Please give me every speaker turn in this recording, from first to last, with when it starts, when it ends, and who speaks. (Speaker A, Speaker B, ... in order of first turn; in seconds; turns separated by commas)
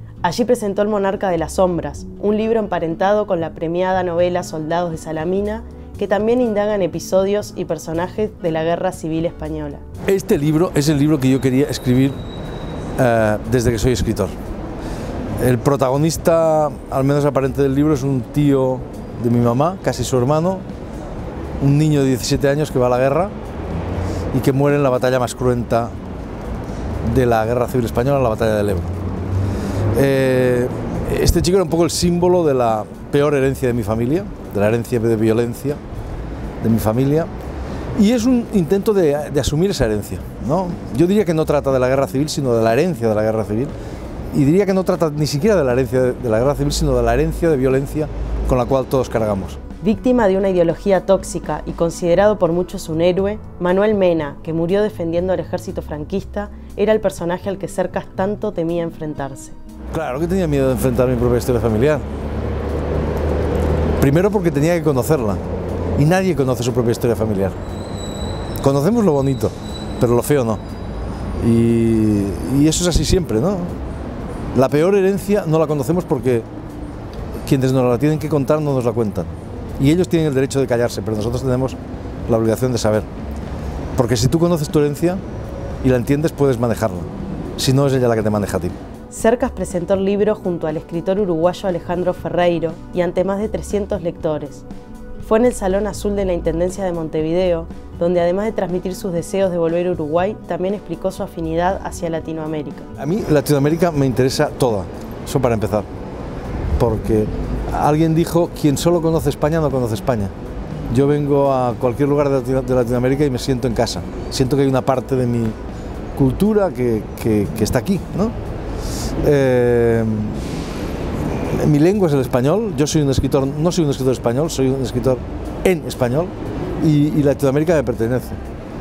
Speaker A: 0.2-9.8, Speaker B: 10.1-12.2, Speaker B: 13.0-14.3, Speaker B: 15.4-20.6, Speaker B: 21.6-23.3, Speaker B: 24.3-25.9, Speaker B: 27.0-28.9, Speaker B: 29.9-35.8, Speaker B: 36.6-37.3, Speaker B: 38.0-43.7, Speaker B: 44.3-49.6, Speaker A: 49.8-59.6, Speaker B: 59.9-62.0, Speaker B: 64.0-65.4, Speaker B: 66.0-67.6, Speaker B: 68.6-70.6, Speaker B: 71.4-73.8, Speaker B: 74.5-76.5, Speaker B: 77.5-83.1, Speaker B: 84.0-85.2, Speaker B: 85.8-88.8, Speaker A: 89.1-94.7, Speaker A: 95.2-102.9, Speaker B: 103.0-105.9, Speaker B: 106.8-110.3, Speaker B: 110.9-115.6, Speaker B: 116.2-118.3, Speaker B: 119.2-120.5, Speaker B: 121.4-128.4